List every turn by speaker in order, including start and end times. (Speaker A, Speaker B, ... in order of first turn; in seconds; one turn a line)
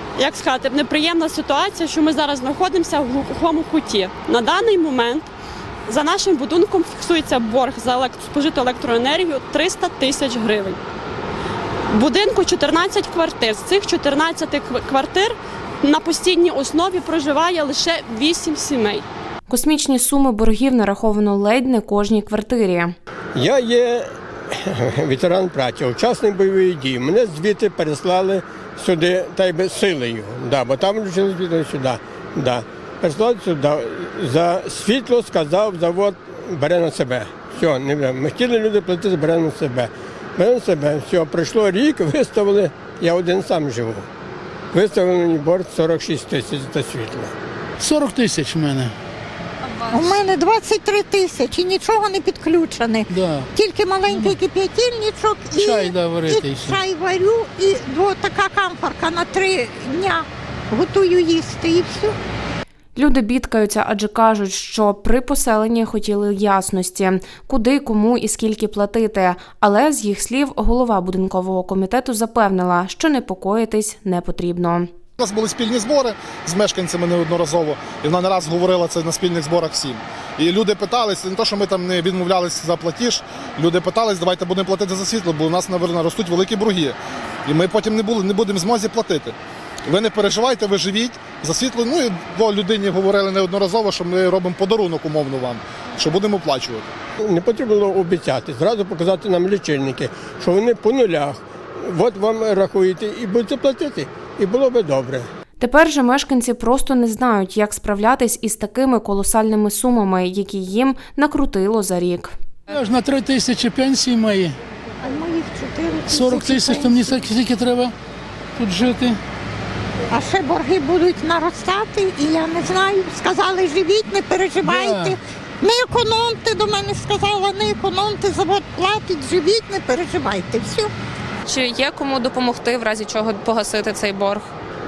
Speaker A: 0.2-5.3
Speaker A: 5.9-10.8
Speaker A: 11.9-19.1
Speaker B: 19.5-22.9
Speaker C: 23.4-44.1
Speaker C: 44.7-47.3
Speaker D: 47.8-49.0
Speaker E: 49.9-62.2
Speaker D: 53.1-53.5
Speaker D: 54.1-54.4
Speaker D: 55.6-56.8
Speaker B: 63.0-74.9
Speaker F: 75.2-89.3
Speaker F: 89.9-96.9
Speaker C: 97.2-105.3
Speaker B: 105.6-112.3
Speaker D: 112.7-114.6
Speaker E: 115.0-117.2
Speaker D: 116.1-118.0
Speaker D: 118.6-119.2
Speaker E: 120.1-130.9
Speaker D: 124.6-125.2
Speaker G: 131.5-134.5